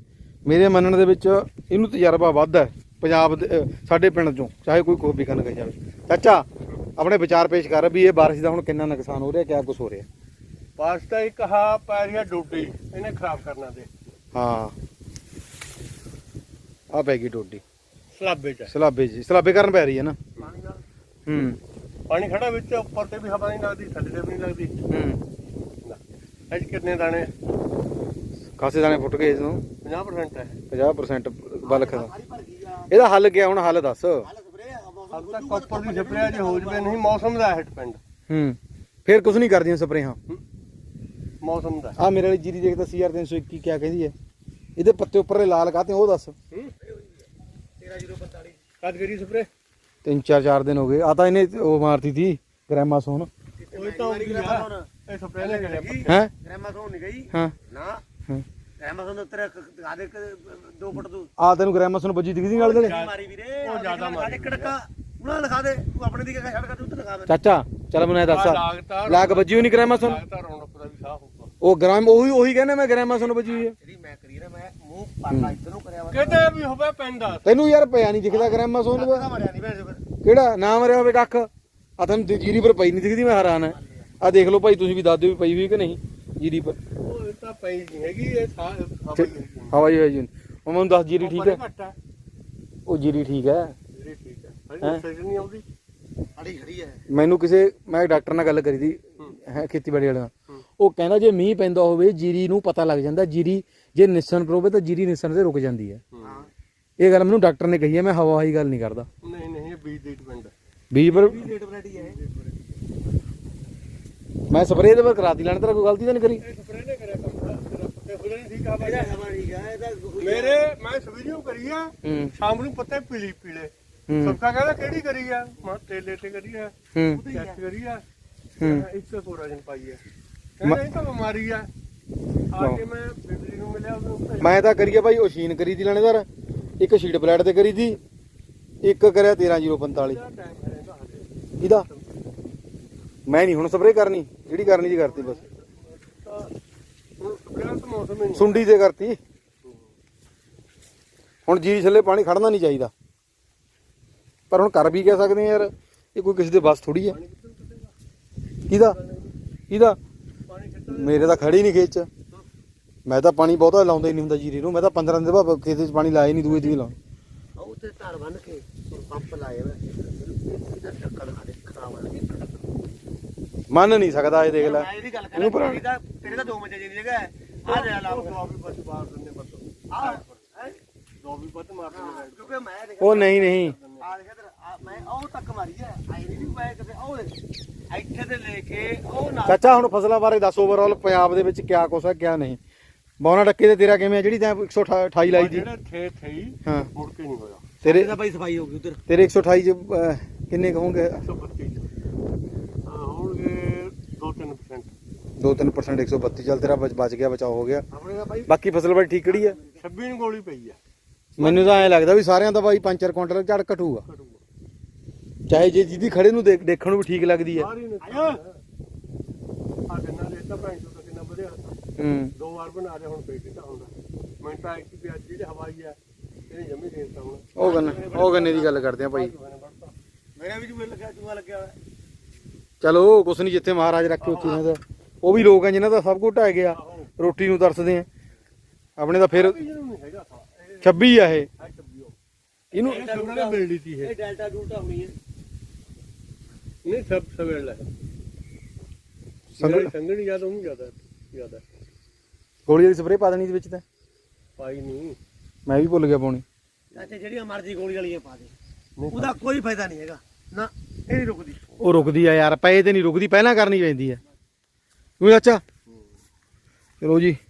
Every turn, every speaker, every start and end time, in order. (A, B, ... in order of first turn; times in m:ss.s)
0:00.4-0:10.1 A
0:10.8-0:13.9 B
0:14.3-0:14.8 A
0:16.9-0:17.6 A
0:18.1-0:18.7 B
0:18.7-0:20.2 A
0:20.4-0:20.8 B
0:21.2-0:21.6 A
0:22.1-0:24.8 B
0:24.9-0:25.2 A
0:25.8-0:27.3 B
0:28.5-0:29.7 A
0:29.8-0:30.6 B
0:30.7-0:32.1 A
0:31.6-0:33.0 C
0:32.9-0:34.3 A
0:34.2-0:37.1 C
0:35.1-0:38.0 B
0:38.3-0:40.2 A
0:41.4-0:42.0 B
0:42.0-0:44.1 A
0:44.8-0:46.3 A
0:46.8-0:47.1 C
0:47.8-0:48.6 C
0:48.8-0:49.5 B
0:50.0-0:53.3 A
0:53.6-0:54.9 C
0:53.7-0:56.2 B
0:55.4-0:58.0 C
0:56.0-0:56.3 A
0:58.8-1:01.3 C
1:01.4-1:03.0 A
1:02.5-1:07.4 C
1:02.7-1:04.8 B
1:07.3-1:10.2 A
1:08.3-1:11.5 B
1:11.6-1:13.7 A
1:13.1-1:16.5 C
1:15.3-1:15.6 A
1:16.1-1:17.6 B
1:17.4-1:19.3 A
1:18.3-1:20.0 C
1:20.2-1:26.8 A
1:26.9-1:29.7 B
1:29.1-1:31.6 A
1:31.2-1:32.0 B
1:32.9-1:33.8 A
1:33.9-1:35.6 B
1:36.4-1:37.0 C
1:37.1-1:46.0 A
1:46.1-1:46.4 B
1:46.2-1:46.5 C
1:47.0-1:49.1 A
1:49.2-1:50.5 B
1:50.9-1:51.5 A
1:51.0-1:52.2 C
1:52.0-1:52.5 B
1:54.5-1:56.4 A
1:56.4-1:59.2 B
1:58.8-2:00.6 C
2:00.2-2:06.7 B
2:02.0-2:02.3 A
2:04.1-2:04.4 A
2:06.9-2:07.2 A
2:07.1-2:07.6 C
2:07.2-2:08.0 B
2:08.6-2:10.0 B
2:08.6-2:08.8 A
2:10.6-2:11.7 B
2:12.5-2:14.8 B
2:14.4-2:16.3 A
2:16.8-2:18.0 A
2:18.8-2:20.2 A
2:19.9-2:22.2 B
2:21.6-2:21.8 A
2:23.3-2:25.4 A
2:24.7-2:26.5 B
2:27.2-2:28.7 B
2:28.3-2:29.2 A
2:31.5-2:32.9 A
2:34.5-2:37.2 A
2:37.1-2:37.9 B
2:38.7-2:39.0 A
2:38.7-2:39.3 B
2:39.7-2:40.0 A
2:40.5-2:41.5 B
2:40.9-2:42.1 A
2:43.0-2:46.9 A
2:47.6-2:52.6 C
2:53.7-2:55.8 A
2:54.5-2:58.4 C
2:57.6-3:00.5 B
2:59.9-3:00.8 C
3:01.2-3:02.6 B
3:01.9-3:09.9 C
3:03.0-3:03.7 A
3:03.3-3:04.0 B
3:09.4-3:12.6 A
3:13.2-3:15.7 A
3:15.2-3:17.7 B
3:16.6-3:16.9 A
3:17.8-3:19.0 C
3:17.8-3:18.1 A
3:19.1-3:21.2 A
3:21.2-3:21.9 B
3:22.8-3:24.9 B
3:25.4-3:27.8 A
3:27.9-3:28.5 C
3:28.4-3:29.6 A
3:29.4-3:29.8 C
3:29.8-3:30.8 B
3:31.4-3:34.0 A
3:31.4-3:31.9 B
3:34.1-3:34.4 B
3:35.5-3:37.7 A
3:37.5-3:38.6 B
3:38.0-3:38.4 C
3:39.9-3:41.8 B
3:42.0-3:42.3 A
3:42.4-3:46.0 B
3:46.5-3:49.9 B
3:47.6-3:49.3 A
3:47.6-3:48.6 C
3:50.4-3:51.8 C
3:52.8-3:58.1 A
3:54.2-3:54.6 B
3:56.7-3:57.1 B
3:59.0-3:59.6 A
3:59.3-4:01.0 B
4:00.8-4:01.5 A
4:01.6-4:02.1 B
4:02.7-4:03.0 A
4:02.7-4:05.2 C
4:02.8-4:04.2 B
4:06.8-4:07.9 B
4:09.5-4:09.9 A
4:09.6-4:11.6 B
4:12.7-4:13.8 A
4:14.6-4:15.2 B
4:15.7-4:16.4 A
4:16.9-4:18.5 C
4:19.0-4:19.4 B
4:19.1-4:22.0 C
4:21.8-4:24.2 A
4:25.2-4:25.6 A
4:27.0-4:27.4 A